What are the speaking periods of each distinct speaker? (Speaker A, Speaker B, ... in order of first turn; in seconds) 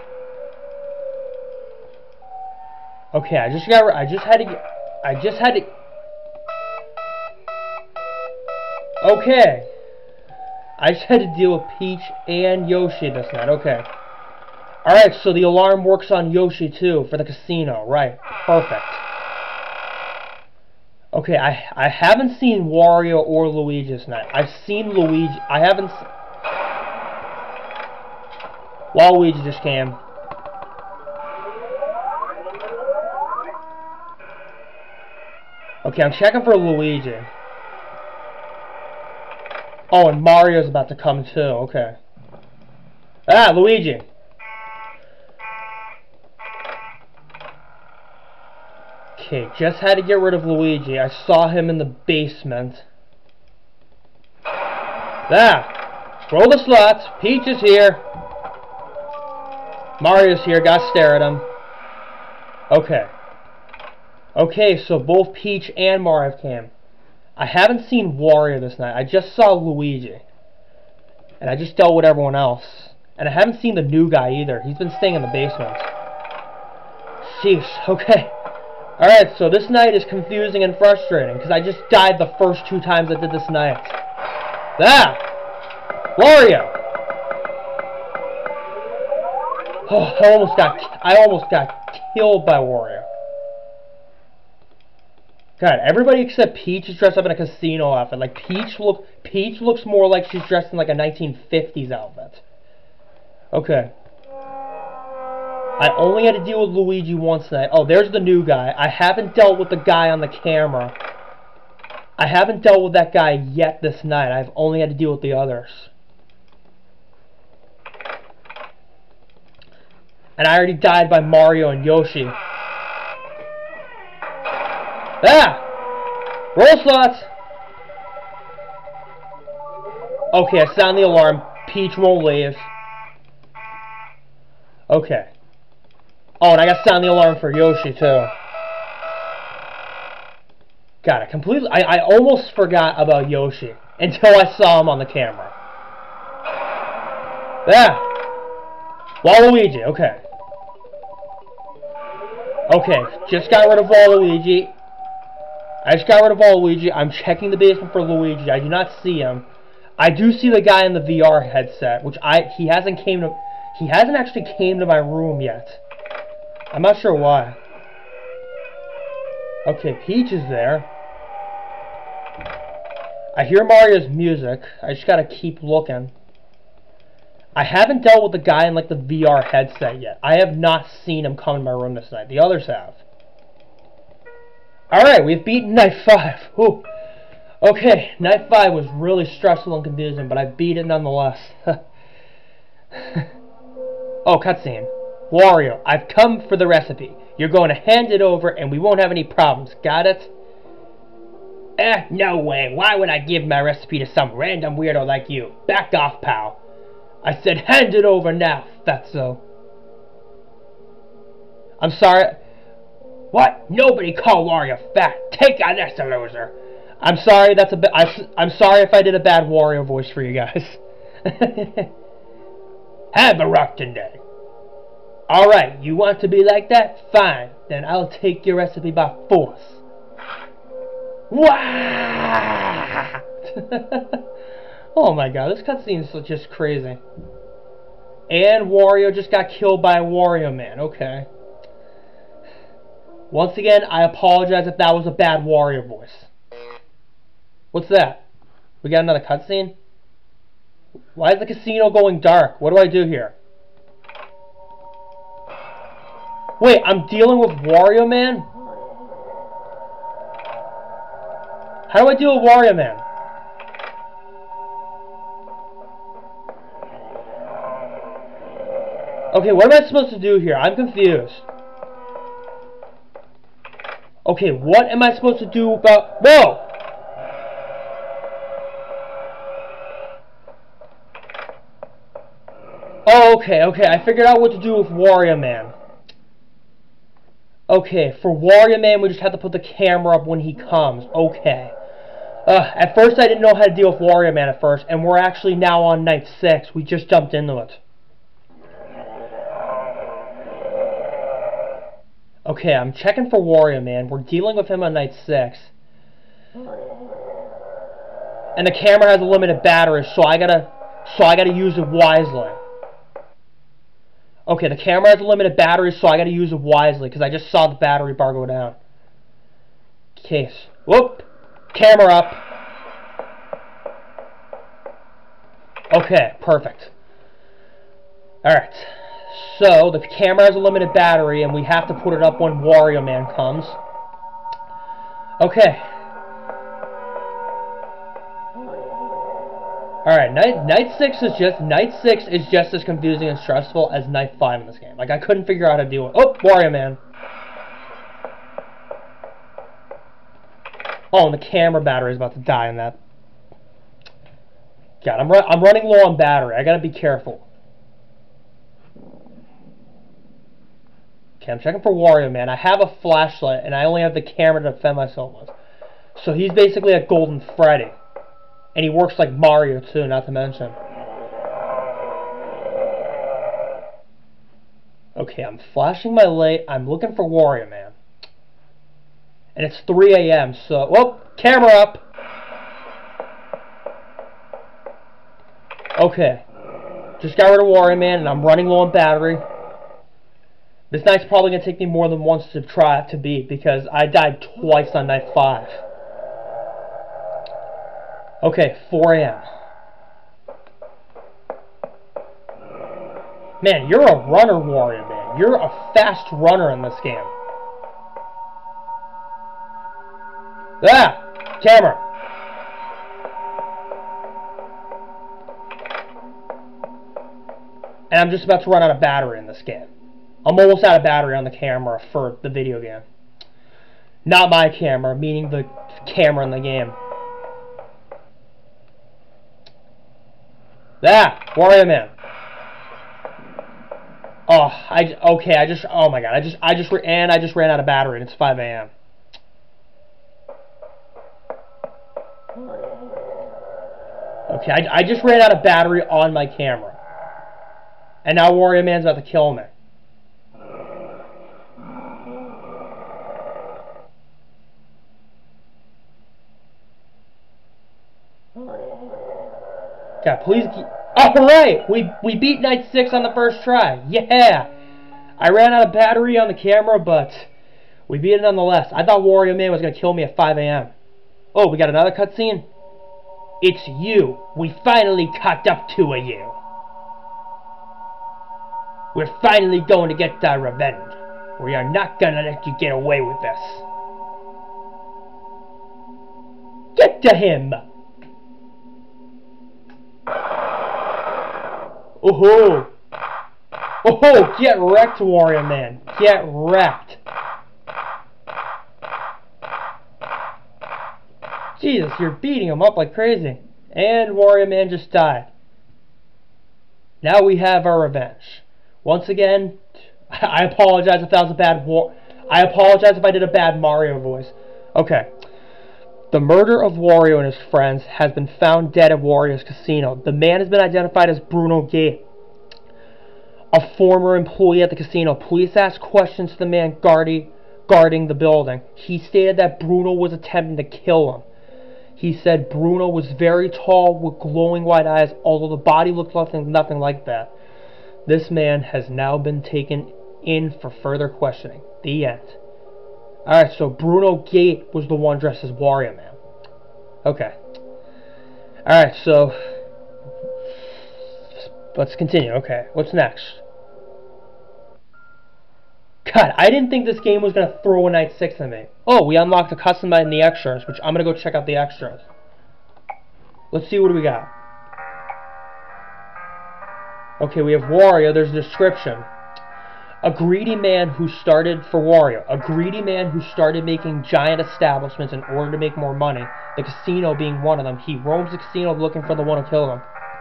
Speaker A: 3.1-5.7, 9.0-9.7, 10.8-13.9, 14.8-19.0, 21.1-26.1, 28.9-30.0, 35.9-37.3, 39.9-42.0, 43.3-44.1, 49.2-52.9, 55.3-55.7, 56.3-58.1, 60.0-61.5, 62.7-63.1, 64.4-66.7, 67.4-70.2, 71.4-75.9, 77.2-78.3, 79.0-84.0, 84.8-85.2, 86.2-86.7, 89.9-93.1, 95.6-102.4, 103.5-103.9, 105.8-111.0, 112.2-115.9, 120.4-122.4, 125.2-125.6, 126.5-127.3, 130.3-132.7, 134.9-135.3, 136.4-138.3, 141.0-145.6, 147.7-148.1, 149.2-150.2, 152.7-154.8, 155.8-159.5, 160.0-165.8, 166.7-167.6, 169.7-170.9, 173.3-176.1, 177.6-183.0, 184.9-186.9, 187.6-191.8, 192.9-193.3, 194.2-200.3, 201.8-206.6, 207.2-209.4, 211.8-212.4, 213.3-221.9, 223.1-224.2, 225.3-229.8, 231.3-234.2, 234.9-237.0, 238.3-241.3, 243.3-246.3, 247.7-248.2, 248.8-249.8, 251.2-253.4, 256.6-258.5, 261.9-263.0, 269.3-271.5, 274.2-276.7, 283.1-285.8, 287.7-291.8, 292.5-297.8, 302.5-305.7, 308.6-312.6, 314.5-318.8, 320.2-322.4, 325.9-326.9, 328.4-333.8, 335.4-335.9, 340.1-347.0, 351.1-353.0, 355.0-357.5, 361.4-365.5, 366.2-368.0, 368.8-370.8, 375.2-377.9, 379.6-382.0, 386.0-386.4, 387.2-389.5, 390.9-395.8, 398.4-399.4, 403.6-407.3, 410.8-412.0, 418.1-419.9, 420.4-423.1, 424.2-427.0, 431.0-432.1, 434.5-438.9, 444.5-447.0, 448.2-449.7, 460.2-464.7, 465.4-467.5, 468.1-470.9, 471.5-472.7, 473.6-476.6, 479.1-483.9, 487.0-487.8, 492.2-492.9, 494.0-497.2, 501.8-505.5, 507.2-515.3, 516.3-522.2, 523.7-531.5, 532.2-537.5, 538.3-542.6, 543.5-546.4, 547.2-547.6, 548.9-549.6, 551.5-553.6, 556.2-562.3, 563.7-564.5, 567.4-569.3, 570.2-580.1